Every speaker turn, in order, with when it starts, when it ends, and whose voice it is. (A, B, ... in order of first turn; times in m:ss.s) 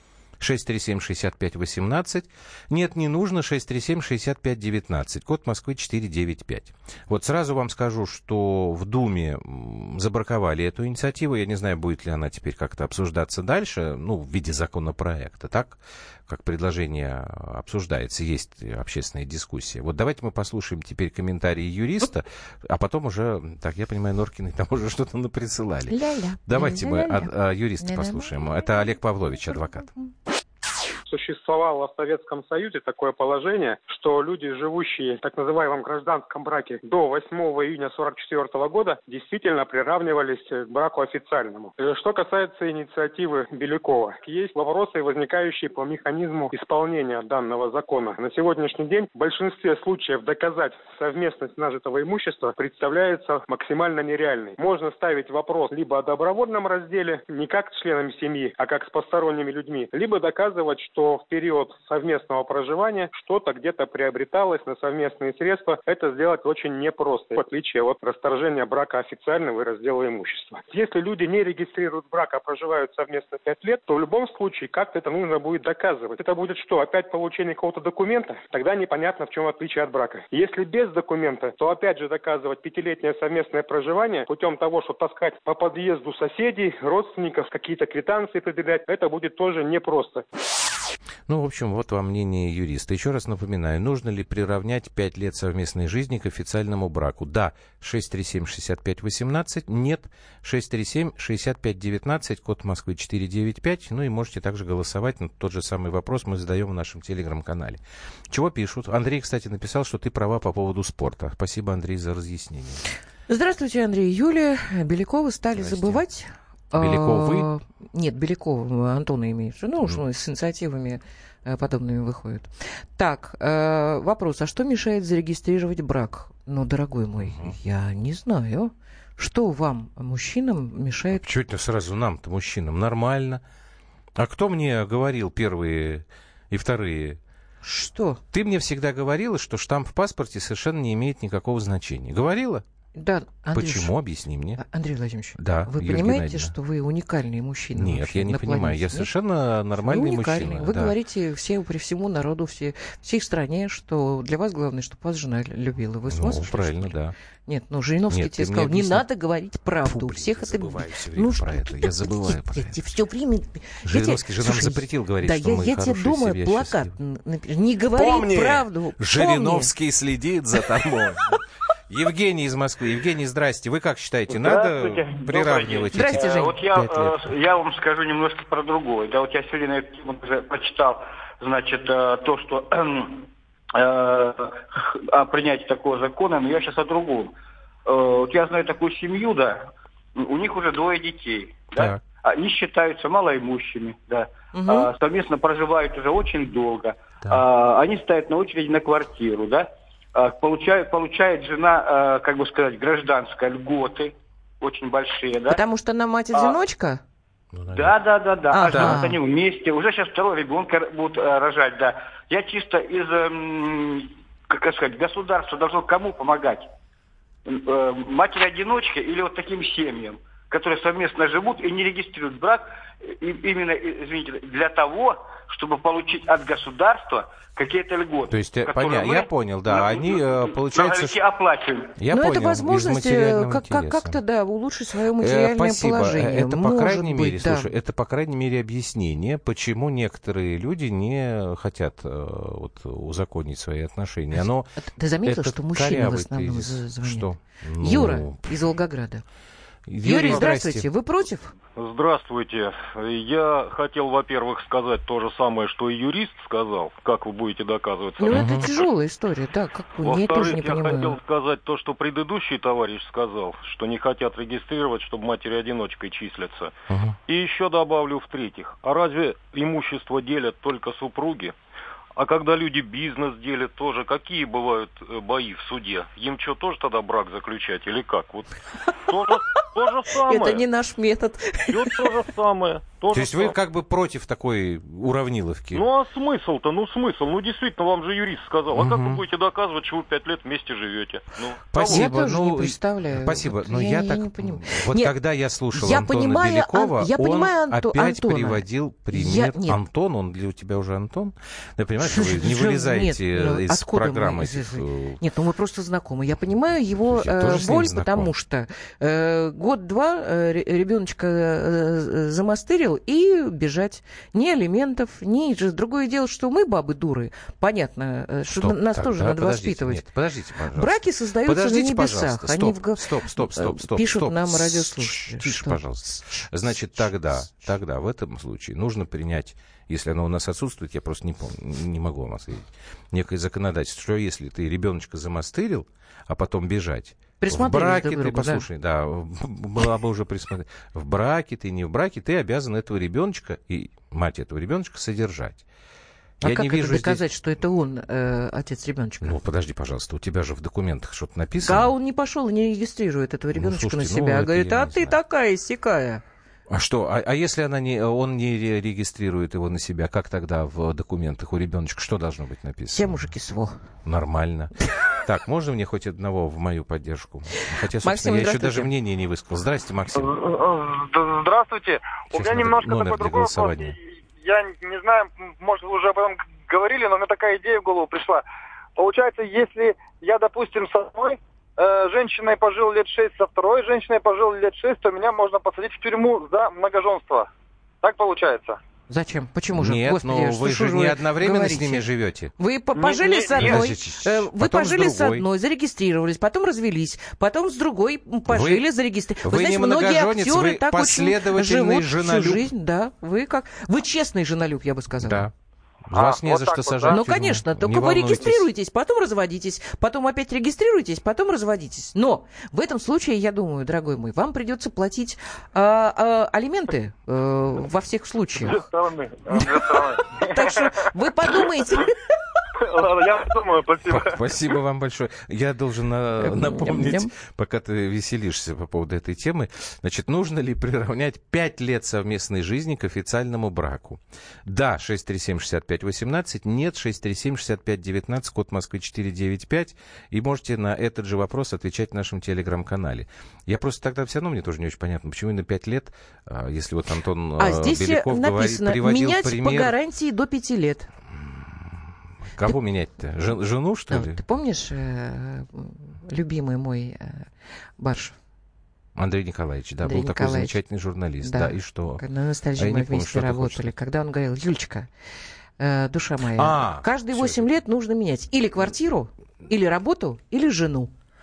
0:00.4-0:29.9 A
0:25.9-0:29.0 B
0:29.5-0:30.1 B
0:31.1-1:30.2 C
1:31.3-1:52.8 A
1:53.3-2:11.2 B
1:55.6-1:56.0 A
1:56.7-1:57.5 A
2:07.2-2:07.5 A
2:11.1-2:13.4 A
2:14.2-2:17.2 A
2:17.6-2:18.2 B
2:18.3-2:22.6 A
2:22.9-2:23.9 B
2:23.5-2:24.6 A
2:24.6-2:29.1 B
2:25.4-2:26.5 A
2:27.8-2:30.9 A
2:29.8-2:37.0 B
2:36.1-2:37.1 A
2:37.5-2:49.7 B
2:38.1-2:39.0 A
2:39.8-2:42.8 A
2:43.8-2:46.9 A
2:47.9-2:57.3 A
2:54.3-3:07.3 D
2:55.9-2:56.6 B
3:07.8-3:25.6 D
3:11.8-3:12.0 A
3:14.5-3:14.9 B
3:25.5-3:27.0 B
3:26.3-3:26.6 D
3:27.5-3:28.0 A
3:27.7-3:36.7 D
3:28.5-3:29.2 B
3:28.6-3:29.0 A
3:37.4-3:52.0 D
3:48.3-3:51.2 A
3:52.0-3:54.2 A
3:52.1-3:57.7 B
3:55.2-4:04.7 A
4:04.8-4:09.2 B
4:05.2-4:08.5 A
4:09.9-4:10.9 A
4:10.0-4:11.5 B
4:11.8-4:18.9 E
4:18.2-4:21.2 B
4:18.3-4:18.7 A
4:20.0-4:26.7 E
4:26.9-4:27.2 A
4:27.3-4:31.5 E
4:32.1-4:38.5 E
4:39.1-4:40.6 E
4:40.1-4:42.2 B
4:41.7-4:43.6 E
4:43.1-4:45.9 A
4:45.7-4:52.1 E
4:48.7-4:49.2 A
4:51.7-5:05.2 A
4:51.8-4:55.1 B
4:55.7-4:59.8 B
5:02.0-5:20.0 B
5:07.1-5:08.3 A
5:18.5-5:45.6 A
5:20.7-5:27.1 B
5:37.4-5:38.7 B
5:46.4-5:47.2 A
5:46.4-5:49.4 B
5:49.2-5:51.9 A
5:51.6-5:56.2 B
5:53.5-5:55.2 A
5:56.7-6:03.3 A
6:02.9-6:03.8 B
6:04.0-6:10.3 A
6:08.0-6:08.9 B
6:10.1-6:18.4 F
6:12.3-6:14.0 A
6:19.0-6:27.5 F
6:28.0-6:28.8 F
6:29.1-6:32.0 B
6:29.7-6:32.5 A
6:32.6-6:45.5 B
6:33.0-6:33.8 F
6:33.6-6:35.4 A
6:38.5-6:38.8 A
6:39.4-6:42.7 A
6:45.2-6:45.5 A
6:46.1-6:48.7 A
6:46.1-6:47.2 F
6:47.1-6:58.8 B
6:58.6-7:01.6 F
6:59.5-7:02.2 B
7:02.8-7:04.7 F
7:04.1-7:29.9 A
7:06.4-7:07.3 B
7:27.6-7:31.1 B
7:31.3-7:34.4 A
7:34.1-7:38.4 B
7:39.1-7:42.2 A
7:40.0-7:40.8 B
7:41.4-7:45.1 B
7:42.8-7:43.9 A
7:45.8-7:51.1 B
7:46.5-7:47.6 A